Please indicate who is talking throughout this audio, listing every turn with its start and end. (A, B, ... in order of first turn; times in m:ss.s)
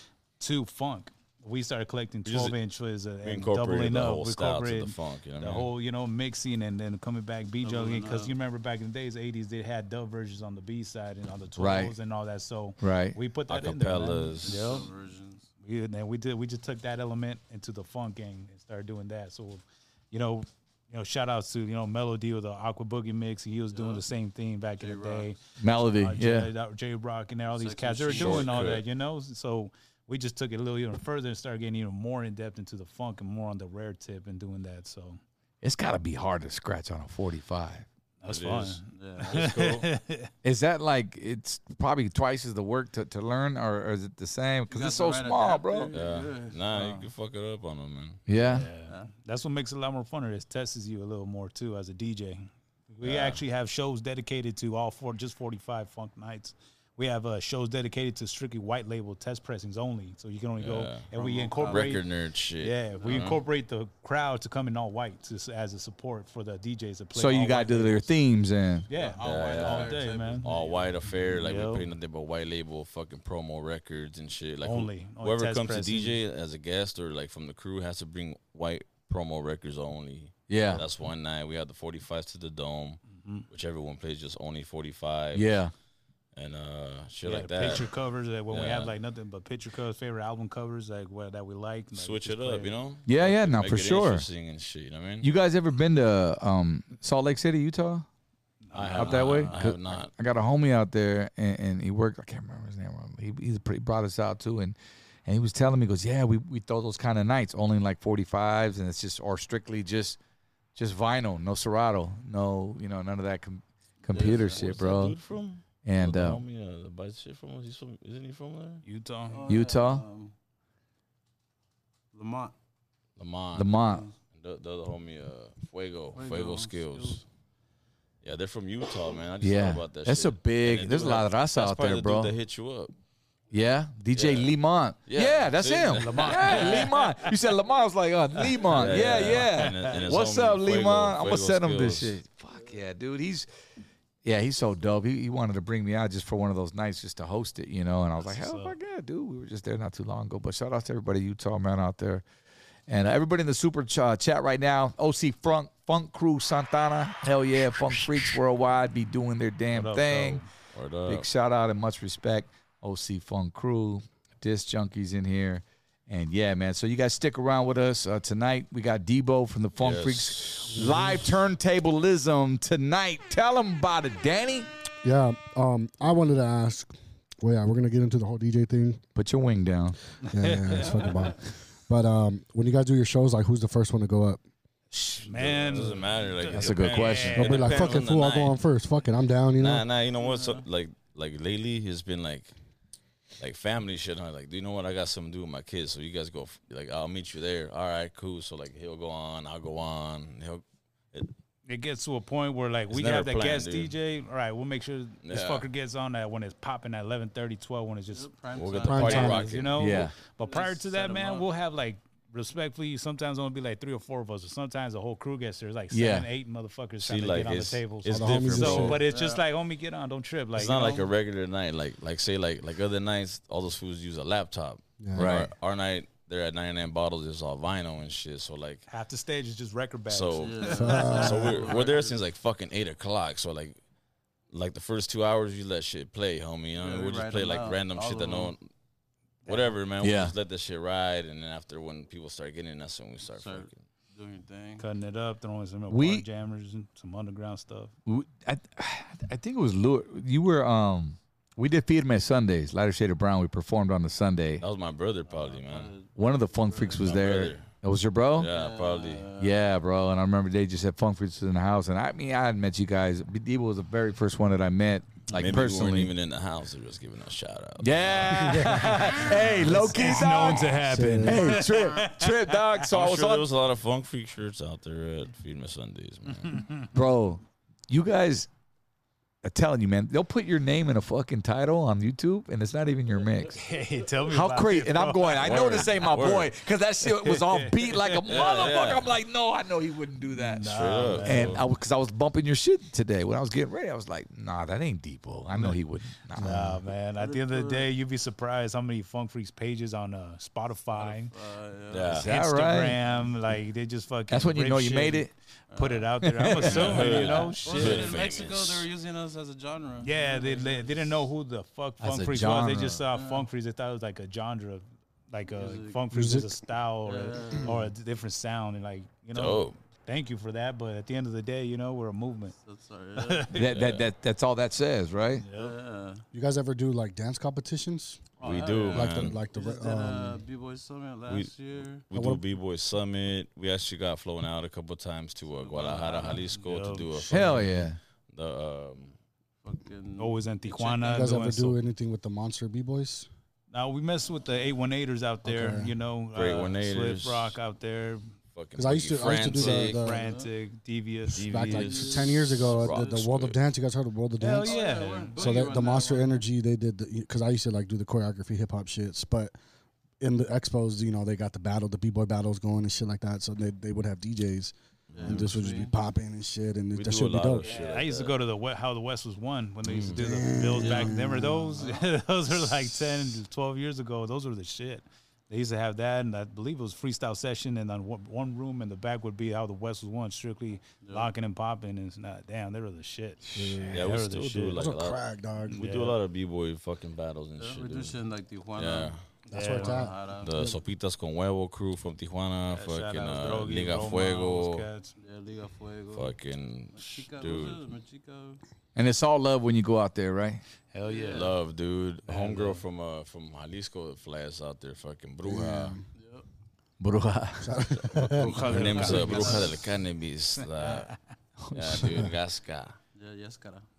0:00.4-0:14.9 A
0:02.2-0:02.6 B
0:03.2-0:05.7 B
0:07.6-0:08.3 C
0:11.6-0:11.9 D
0:12.8-0:13.2 D
0:13.5-0:14.6 B
0:14.4-0:15.5 C
0:15.6-0:35.2 A
0:23.7-0:24.0 C
0:24.8-0:25.3 C
0:25.6-0:26.5 D
0:27.5-0:28.6 C
0:28.1-0:28.8 B
0:35.6-0:37.8 D
0:38.2-0:40.3 A
0:38.3-0:39.9 B
0:38.8-0:39.4 C
0:40.4-0:45.9 D
0:44.7-0:46.9 C
0:45.9-0:48.2 B
0:48.3-0:48.6 D
0:48.5-1:02.1 A
0:48.8-0:49.1 C
0:53.0-0:53.4 B
1:00.6-1:03.4 B
1:01.2-1:02.0 C
1:02.6-1:08.1 A
1:03.0-1:03.2 C
1:07.1-1:08.9 D
1:08.9-1:10.5 A
1:08.9-1:11.0 C
1:09.2-1:25.5 B
1:11.3-1:11.8 A
1:14.6-1:16.2 A
1:20.5-1:20.8 D
1:23.1-1:23.5 A
1:25.3-1:25.7 D
1:26.3-1:27.9 B
1:27.2-1:32.7 A
1:28.5-1:28.9 B
1:31.9-1:35.3 B
1:33.1-1:34.2 D
1:35.2-1:38.0 D
1:38.7-1:39.4 A
1:38.7-1:40.1 B
1:38.9-1:50.2 D
1:50.7-1:55.2 D
1:54.1-1:54.6 C
1:54.1-1:58.8 B
1:55.8-1:56.4 D
1:58.8-1:59.5 A
1:59.3-2:00.3 C
1:59.4-2:00.0 D
2:02.1-2:02.5 C
2:03.2-2:03.7 B
2:03.5-2:04.1 D
2:04.3-2:07.2 B
2:06.1-2:07.2 C
2:08.2-2:12.9 B
2:09.4-2:12.3 D
2:13.5-2:23.5 D
2:14.1-2:14.5 B
2:15.0-2:16.9 B
2:15.9-2:17.3 A
2:18.7-2:22.2 B
2:18.7-2:19.9 A
2:24.2-2:32.2 D
2:28.3-2:28.7 A
2:32.9-2:40.4 D
2:39.7-2:40.5 A
2:40.7-2:41.3 B
2:41.0-2:54.7 D
2:49.8-2:50.7 B
2:50.7-2:51.2 E
2:55.0-2:59.0 E
2:59.2-3:00.0 D
3:00.2-3:01.1 A
3:00.3-3:04.4 E
3:04.9-3:08.0 A
3:05.2-3:08.6 B
3:06.5-3:07.5 D
3:07.3-3:09.9 E
3:09.6-3:12.5 B
3:10.2-3:10.6 C
3:13.4-3:21.3 B
3:21.6-3:28.3 A
3:22.9-3:23.9 B
3:25.2-3:25.7 B
3:28.1-3:29.4 C
3:28.5-3:29.8 B
3:28.8-3:29.4 E
3:29.0-3:41.0 A
3:29.8-3:30.1 D
3:30.4-3:31.5 C
3:35.9-3:36.3 D
3:37.0-3:39.0 B
3:38.1-3:39.0 E
3:39.0-3:39.4 C
3:40.6-3:48.8 B
3:45.0-3:45.3 E
3:45.1-3:45.5 D
3:48.9-3:51.8 A
3:50.1-3:53.8 B
3:50.4-3:52.2 C
3:50.8-3:51.5 E
3:54.5-3:58.6 B
3:56.8-3:58.5 C
3:59.4-4:03.8 B
3:59.4-3:59.7 A
4:00.0-4:00.3 D
4:03.3-4:04.8 C
4:04.8-4:07.9 A
4:05.9-4:06.2 D
4:08.0-4:14.6 D
4:14.6-4:15.9 B
4:15.3-4:17.0 C
4:16.2-4:18.5 D
4:17.0-4:17.7 B
4:18.4-4:19.3 B
4:18.5-4:19.6 C
4:19.4-4:26.1 D
4:25.3-4:28.4 B
4:27.8-4:33.4 D
4:28.5-4:28.8 E
4:28.5-4:32.4 A
4:29.5-4:31.7 E
4:32.9-4:36.6 B
4:36.5-4:36.9 A
4:36.9-4:38.5 D
4:39.4-4:43.6 D
4:43.6-4:46.1 A
4:44.3-4:56.5 D
4:45.4-4:46.5 B
4:47.0-4:48.3 A
4:48.3-4:49.1 B
4:50.3-4:51.6 A
4:50.7-4:51.6 B
4:56.4-4:56.8 E
4:56.4-5:01.3 A
4:57.2-4:57.9 C
5:00.9-5:02.2 C
5:01.9-5:02.3 B
5:02.1-5:03.0 D
5:02.2-5:08.1 A
5:03.0-5:03.4 C
5:04.3-5:05.3 D
5:05.7-5:06.1 C
5:06.2-5:08.0 D
5:06.6-5:08.9 B
5:06.7-5:11.1 C
5:10.0-5:22.6 A
5:12.0-5:13.0 D
5:13.1-5:13.5 C
5:15.5-5:16.1 C
5:16.1-5:16.5 E
5:17.0-5:17.8 C
5:19.3-5:19.8 B
5:22.6-5:23.5 C
5:23.2-5:23.6 A
5:23.5-5:25.4 D
5:23.7-5:24.0 B
5:25.4-5:25.7 A
5:25.5-5:26.2 C
5:26.3-5:28.3 E
5:28.4-5:28.7 A
5:28.4-5:29.4 B
5:28.4-5:32.1 C
5:28.9-5:30.4 E
5:31.3-5:39.2 B
5:32.1-5:32.4 E
5:35.6-5:36.5 C
5:36.0-5:37.6 A
5:37.3-5:38.0 D
5:39.6-5:41.4 C
5:40.2-5:41.8 A
5:41.1-5:43.3 E
5:43.7-5:48.3 A
5:45.4-5:45.9 E
5:46.3-5:47.6 B
5:48.5-5:50.0 B
5:48.8-5:50.2 E
5:49.6-5:51.4 A
5:50.1-5:50.5 C
5:51.3-5:53.6 B
5:51.4-5:59.5 E
5:51.7-5:52.3 C
5:54.4-5:55.5 A
5:54.5-5:56.4 C
6:00.2-6:07.7 E
6:05.1-6:05.5 B
6:05.1-6:05.9 C
6:06.9-6:08.4 B
6:07.6-6:24.8 A
6:09.8-6:10.2 B
6:10.1-6:11.7 E
6:10.8-6:11.2 C
6:11.8-6:12.1 C
6:21.0-6:21.3 C
6:23.5-6:24.0 E
6:23.9-6:25.2 B
6:24.8-6:25.8 E
6:25.6-6:26.1 A
6:25.8-6:28.2 B
6:27.6-6:30.5 C
6:28.7-6:29.2 B
6:29.5-6:30.8 E
6:29.5-6:30.1 A
6:30.4-6:34.8 B
6:32.7-6:35.1 A
6:35.2-6:36.3 C
6:36.1-6:37.8 B
6:36.9-6:38.6 C
6:39.0-6:40.6 D
6:40.9-6:41.5 A
6:41.0-6:41.5 C
6:41.3-6:46.0 B
6:42.3-6:42.8 A
6:45.4-6:46.0 E
6:46.2-6:46.4 C
6:47.0-6:48.3 D
6:47.6-6:49.6 E
6:48.2-6:49.8 A
6:48.6-6:51.1 B
6:48.7-6:49.7 C
6:50.6-6:51.2 A
6:51.6-6:52.0 D
6:51.7-6:53.0 B
6:52.0-6:52.3 E
6:53.1-6:53.9 C